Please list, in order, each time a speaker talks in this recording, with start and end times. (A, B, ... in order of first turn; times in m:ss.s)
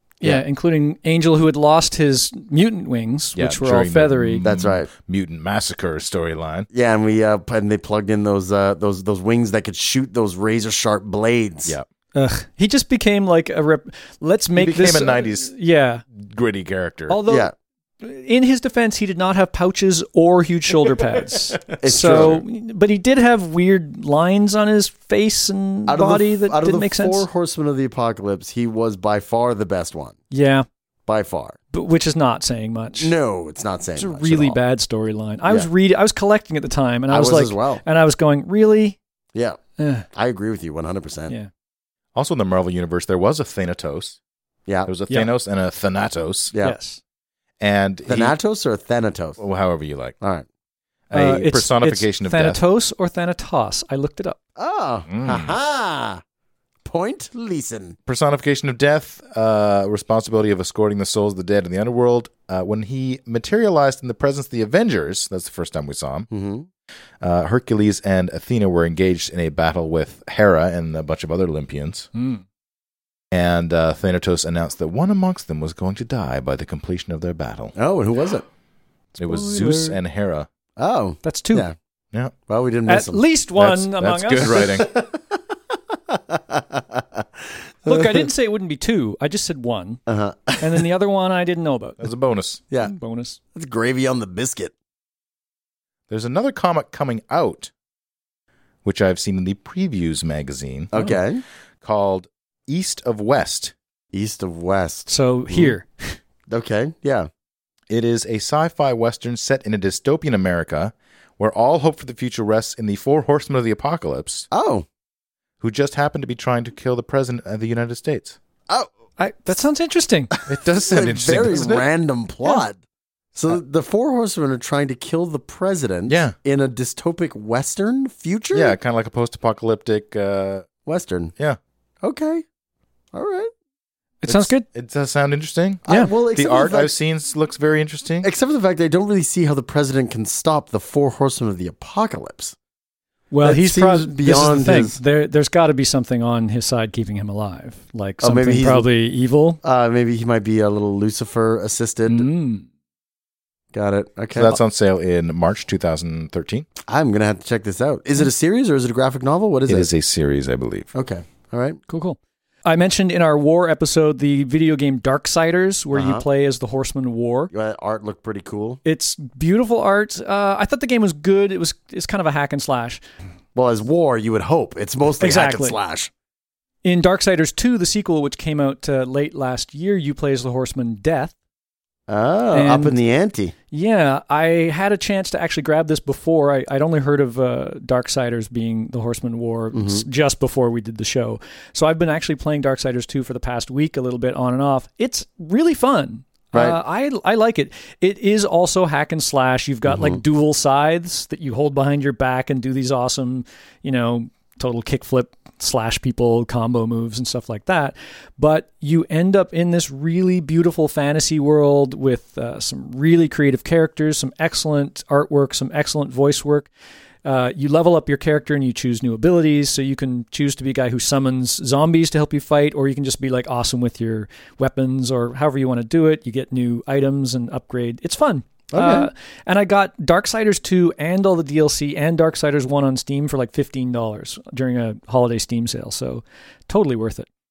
0:00.2-0:04.4 A
0:03.4-0:06.7 B
0:04.4-0:04.9 C
0:06.7-0:11.8 C
0:12.1-0:16.0 A
0:14.6-0:15.5 B
0:16.1-0:17.2 B
0:17.1-0:17.5 A
0:17.2-0:17.5 C
0:18.0-0:27.2 A
0:21.7-0:22.4 B
0:21.8-0:22.4 C
0:25.9-0:30.2 C
0:30.3-0:30.6 A
0:31.1-0:31.6 C
0:31.7-0:33.1 A
0:33.0-0:34.6 C
0:34.0-0:39.0 A
0:37.1-0:37.8 C
0:39.3-0:39.6 C
0:39.8-0:40.0 A
0:40.1-0:41.3 C
0:42.1-0:44.2 B
0:44.9-0:46.5 B
0:46.6-0:47.0 A
0:47.6-0:48.3 B
0:48.0-0:49.4 C
0:49.4-0:50.2 B
0:50.2-0:50.4 C
0:51.1-0:52.6 B
0:51.1-0:54.4 A
0:54.6-0:56.2 C
0:55.1-0:55.6 B
0:56.8-0:58.0 C
0:58.1-1:06.3 B
1:06.3-1:06.7 C
1:07.2-1:12.1 B
1:12.1-1:12.4 A
1:13.3-1:17.8 B
1:17.8-1:18.4 C
1:19.2-1:20.5 B
1:19.2-1:20.0 A
1:20.8-1:21.7 C
1:21.2-1:21.7 A
1:22.5-1:23.2 C
1:22.9-1:24.7 A
1:23.6-1:24.9 B
1:24.4-1:28.3 C
1:27.9-1:30.0 A
1:30.1-1:30.8 C
1:30.6-1:32.0 A
1:32.0-1:32.6 B
1:32.8-1:33.4 A
1:33.5-1:34.7 C
1:36.1-1:37.7 B
1:38.8-1:40.9 B
1:40.9-1:41.4 C
1:41.8-1:43.7 B
1:44.1-1:45.7 C
1:45.1-1:46.2 A
1:46.5-1:47.3 C
1:47.9-1:54.5 B
1:54.5-1:54.9 C
1:55.6-1:58.4 B
1:59.2-2:00.3 A
2:00.4-2:01.9 B
2:00.8-2:02.8 C
2:03.3-2:08.7 C
2:06.1-2:06.3 B
2:08.5-2:10.7 B
2:10.8-2:11.3 C
2:12.0-2:12.4 C
2:13.1-2:13.5 C
2:14.2-2:14.6 A
2:14.3-2:18.3 B
2:15.9-2:16.9 C
2:18.2-2:22.6 C
2:23.3-2:29.6 A
2:23.4-2:25.0 C
2:28.2-2:28.9 C
2:29.6-2:32.3 C
2:32.1-2:32.6 A
2:33.7-2:34.6 C
2:34.3-2:36.7 B
2:36.9-2:39.9 C
2:39.7-2:40.9 B
2:40.9-2:41.8 C
2:41.9-2:47.5 A
2:45.9-2:46.2 C
2:47.5-2:48.8 C
2:48.8-2:53.0 A
2:53.5-2:56.1 C
2:55.2-2:55.8 A
2:56.8-3:01.3 A
3:02.1-3:03.5 C
3:02.5-3:03.0 A
3:03.7-3:36.7 A
3:09.7-3:10.0 C
3:16.5-3:16.8 C
3:19.8-3:20.2 C
3:37.2-3:57.3 A
3:48.7-3:49.1 C